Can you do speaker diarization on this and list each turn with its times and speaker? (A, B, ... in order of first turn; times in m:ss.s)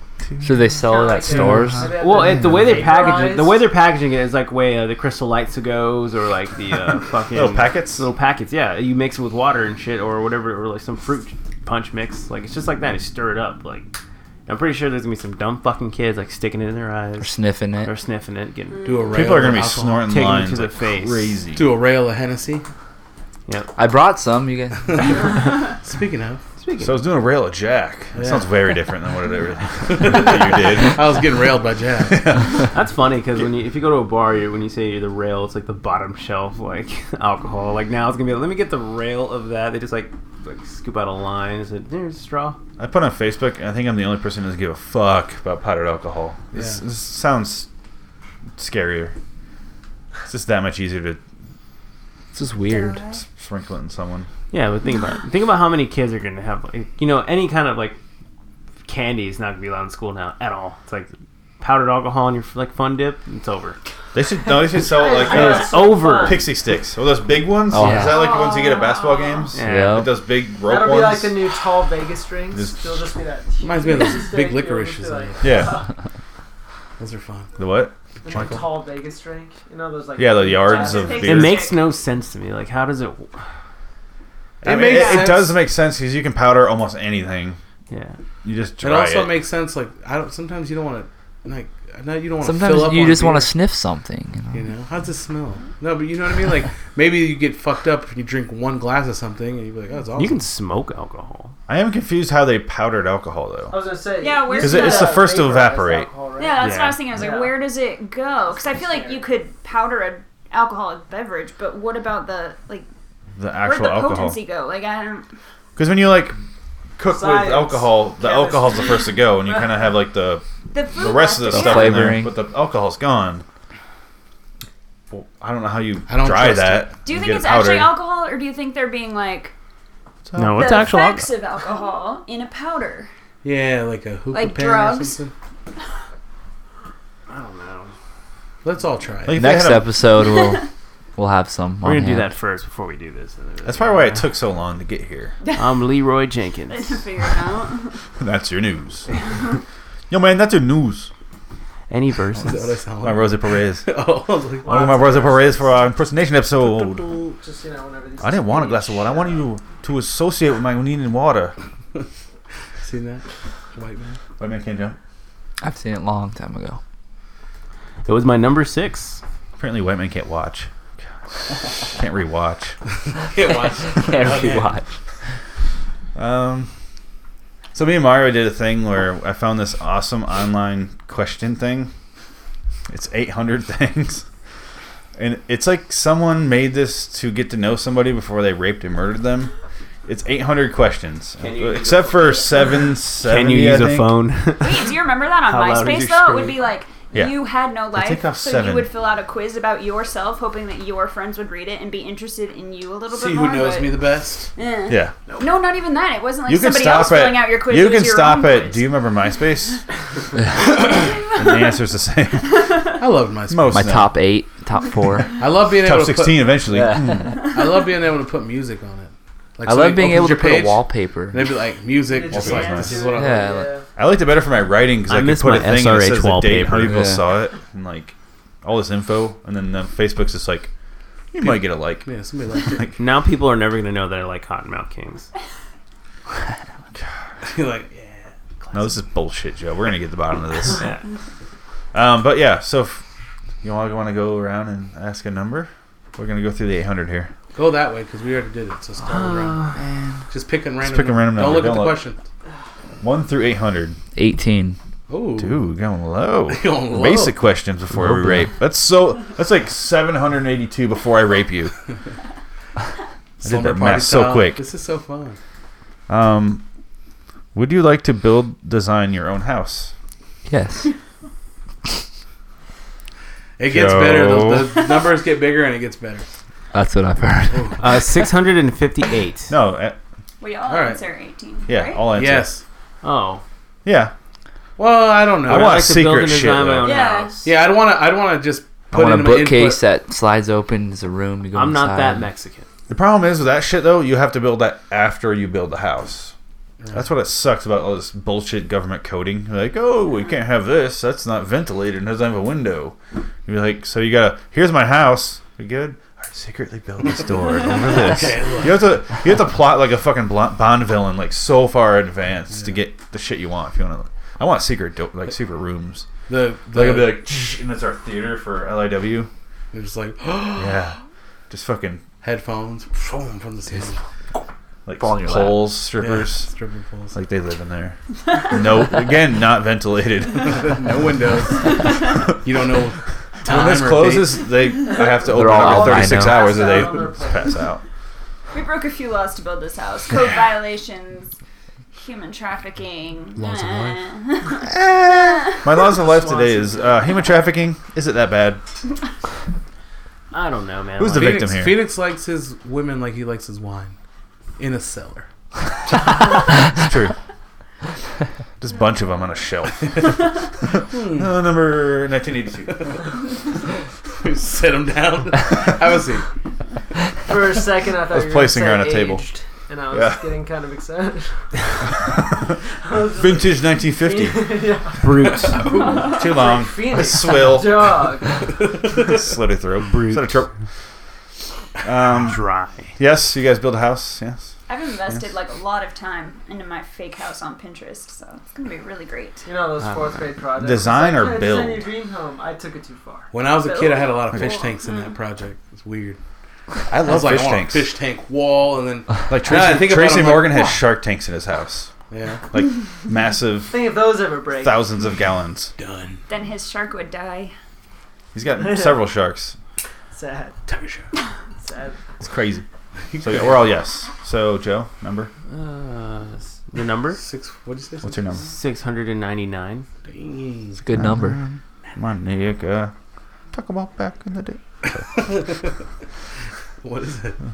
0:00.2-0:01.9 A
0:00.4-0:02.7 B
0:00.8-0:03.7 C
0:01.4-0:13.9 D
0:07.3-0:08.0 A
0:14.5-0:19.4 D
0:17.2-0:17.9 B
0:18.7-0:19.2 E
0:18.8-0:20.1 F
0:19.1-0:21.7 A
0:20.0-0:21.4 D
0:21.5-0:22.6 F
0:23.8-0:25.1 B
0:24.9-0:25.2 F
0:25.8-0:26.4 F
0:26.6-0:27.0 D
0:26.8-0:31.2 A
0:28.1-0:28.5 F
0:29.8-0:32.3 F
0:32.0-0:32.7 A
0:32.6-0:42.6 D
0:42.8-0:47.7 A
0:46.5-0:46.8 F
0:48.6-0:49.1 A
0:50.3-0:51.2 A
0:52.3-0:53.0 B
0:52.6-0:53.2 E
0:53.2-0:54.3 A
0:54.5-0:58.0 D
0:58.8-1:03.8 D
1:04.1-1:11.4 A
1:04.8-1:06.4 C
1:05.2-1:06.4 D
1:07.7-1:08.3 B
1:07.9-1:09.5 E
1:09.5-1:10.0 D
1:09.6-1:10.1 B
1:10.6-1:15.9 C
1:12.5-1:13.1 A
1:13.6-1:15.7 F
1:15.4-1:15.8 A
1:17.0-1:17.5 F
1:17.6-1:18.7 A
1:18.2-1:21.3 C
1:20.2-1:21.7 A
1:20.6-1:21.8 E
1:21.2-1:23.4 D
1:24.6-1:27.6 A
1:24.6-1:25.6 F
1:24.8-1:25.4 E
1:27.9-1:28.2 D
1:28.4-1:29.3 A
1:28.8-1:33.5 F
1:32.4-1:34.6 B
1:34.5-1:40.4 F
1:40.2-1:41.6 D
1:41.7-1:43.8 A
1:43.7-1:47.6 C
1:44.2-1:45.3 E
1:44.6-1:46.1 A
1:46.4-1:52.9 E
1:46.6-1:47.0 D
1:48.5-1:49.3 C
1:53.4-1:54.4 A
1:53.6-1:55.3 E
1:55.8-1:56.4 A
1:57.0-2:03.4 A
1:57.0-1:59.3 C
2:00.7-2:02.2 E
2:01.5-2:02.3 B
2:05.1-2:07.9 A
2:06.1-2:06.9 F
2:07.0-2:09.5 E
2:10.2-2:10.8 A
2:10.4-2:11.3 D
2:10.5-2:13.1 E
2:13.4-2:15.3 F
2:14.3-2:15.2 E
2:17.3-2:17.9 D
2:18.6-2:19.5 F
2:19.3-2:20.0 A
2:19.3-2:22.3 B
2:20.2-2:20.6 E
2:21.8-2:24.2 D
2:23.6-2:25.4 A
2:25.6-2:27.1 D
2:26.7-2:28.0 E
2:28.2-2:29.1 A
2:30.1-2:31.1 A
2:31.9-2:32.7 D
2:32.4-2:35.4 F
2:33.0-2:34.0 A
2:34.6-2:35.8 C
2:34.6-2:37.1 A
2:36.8-2:39.5 C
2:38.2-2:41.5 A
2:42.8-2:44.2 F
2:44.4-2:45.0 A
2:45.6-2:46.8 B
2:48.0-2:49.2 D
2:49.6-2:50.7 A
2:51.3-2:52.8 A
2:53.1-2:54.8 F
2:53.9-2:54.9 B
2:56.1-2:56.7 A
2:57.7-3:01.9 A
3:02.9-3:04.3 A
3:05.2-3:09.5 A
3:10.0-3:14.2 A
3:11.4-3:12.6 D
3:13.2-3:16.6 D
3:14.6-3:29.0 E
3:17.9-3:18.9 A
3:23.1-3:24.5 F
3:24.9-3:25.1 A
3:26.5-3:29.8 A
3:30.8-3:31.7 E
3:30.9-3:32.5 A
3:32.5-3:33.0 E
3:33.0-3:33.9 F
3:33.5-3:34.2 A
3:33.7-3:35.3 B
3:35.4-3:36.7 F
3:35.7-3:37.4 A
3:36.7-3:37.4 B
3:37.5-3:43.6 F
3:39.6-3:41.5 B
3:42.0-3:43.8 C
3:42.3-3:43.0 A
3:43.1-3:43.7 B
3:44.0-3:50.7 A
3:45.1-3:47.0 D
3:46.8-3:47.2 B
3:51.3-3:52.1 A
3:51.4-3:52.9 F
3:52.6-3:53.0 A
3:53.0-3:55.3 D
3:57.4-3:59.0 F
3:58.7-4:00.9 A
4:01.9-4:03.0 A
4:03.6-4:07.3 A
4:07.5-4:09.6 F
4:09.0-4:09.8 D
4:09.8-4:10.2 B
4:10.3-4:12.2 F
4:10.8-4:12.0 A
4:13.0-4:14.0 A
4:14.2-4:14.8 B
4:15.1-4:15.6 F
4:15.4-4:21.7 A
4:16.5-4:17.4 F
4:17.9-4:18.5 B
4:23.4-4:25.4 F
4:23.4-4:24.6 A
4:26.1-4:26.6 A
4:27.5-4:29.9 A
4:30.5-4:30.9 B
4:33.6-4:36.2 F
4:33.7-4:34.7 A
4:36.7-4:38.1 B
4:37.5-4:37.8 F
4:37.8-4:39.5 D
4:39.5-4:40.0 A
4:40.4-4:42.0 E
4:40.7-4:41.0 F
4:41.7-4:42.5 A
4:42.1-4:42.6 F
4:43.0-4:43.4 D
4:43.8-4:44.1 A
4:44.8-4:45.9 F
4:45.4-4:46.9 A
4:45.5-4:47.4 D
4:46.8-4:47.5 E
4:47.4-4:49.8 F
4:48.9-4:52.3 B
4:51.5-4:52.7 D
4:52.9-4:56.3 A
4:56.8-4:57.1 F
4:56.9-5:16.1 A
5:08.0-5:09.0 F
5:16.3-5:17.2 F
5:16.7-5:19.3 A
5:19.7-5:20.9 F
5:20.6-5:21.0 A
5:21.5-5:22.0 A
5:22.2-5:24.0 F
5:24.8-5:26.5 A
5:25.0-5:25.7 B
5:26.0-5:27.2 F
5:27.1-5:30.8 A
5:30.6-5:34.4 F
5:33.4-5:37.8 A
5:34.9-5:37.7 C
5:35.2-5:36.5 B
5:38.5-5:41.3 E
5:41.9-5:45.7 E
5:43.4-5:43.9 B
5:44.6-5:48.6 A
5:46.0-5:47.1 C
5:50.3-5:51.5 D
5:51.0-5:51.8 A
5:51.1-5:53.9 F
5:54.6-5:55.3 F
5:56.7-5:57.1 A
5:58.6-6:03.0 A
6:00.9-6:01.3 F
6:02.7-6:03.0 F
6:04.2-6:06.2 F
6:07.2-6:11.5 C
6:08.1-6:09.2 A
6:09.9-6:10.3 A
6:12.0-6:12.6 A
6:12.8-6:18.4 C
6:13.1-6:14.5 A
6:15.0-6:15.9 D
6:15.7-6:16.4 E
6:16.1-6:18.2 A
6:18.9-6:20.5 A
6:19.8-6:20.4 D
6:21.8-6:24.6 A
6:22.2-6:23.0 D
6:24.7-6:29.4 E
6:29.4-6:33.3 C
6:29.8-6:30.3 D
6:30.6-6:31.8 A
6:33.3-6:36.2 F
6:33.6-6:35.1 E
6:36.9-6:37.9 A
6:37.0-6:40.7 F
6:39.3-6:41.9 A
6:42.1-6:42.4 F
6:42.5-6:43.9 A
6:43.7-6:44.9 C
6:44.6-6:45.7 A
6:45.8-6:46.2 F
6:46.3-6:47.5 E
6:48.3-6:49.6 A
6:48.6-6:49.0 C
6:50.1-6:50.6 C
6:50.7-6:51.1 F
6:51.6-6:52.0 C
6:52.2-6:52.6 A
6:53.1-6:53.8 F
6:53.2-6:55.3 A
6:55.5-6:57.2 D
6:57.2-6:58.4 F
6:58.0-6:58.4 A
6:58.4-6:59.9 D
7:00.0-7:00.9 F
7:00.8-7:01.4 B
7:00.9-7:02.9 A
7:03.5-7:05.5 A
7:05.1-7:05.8 F
7:06.8-7:07.4 F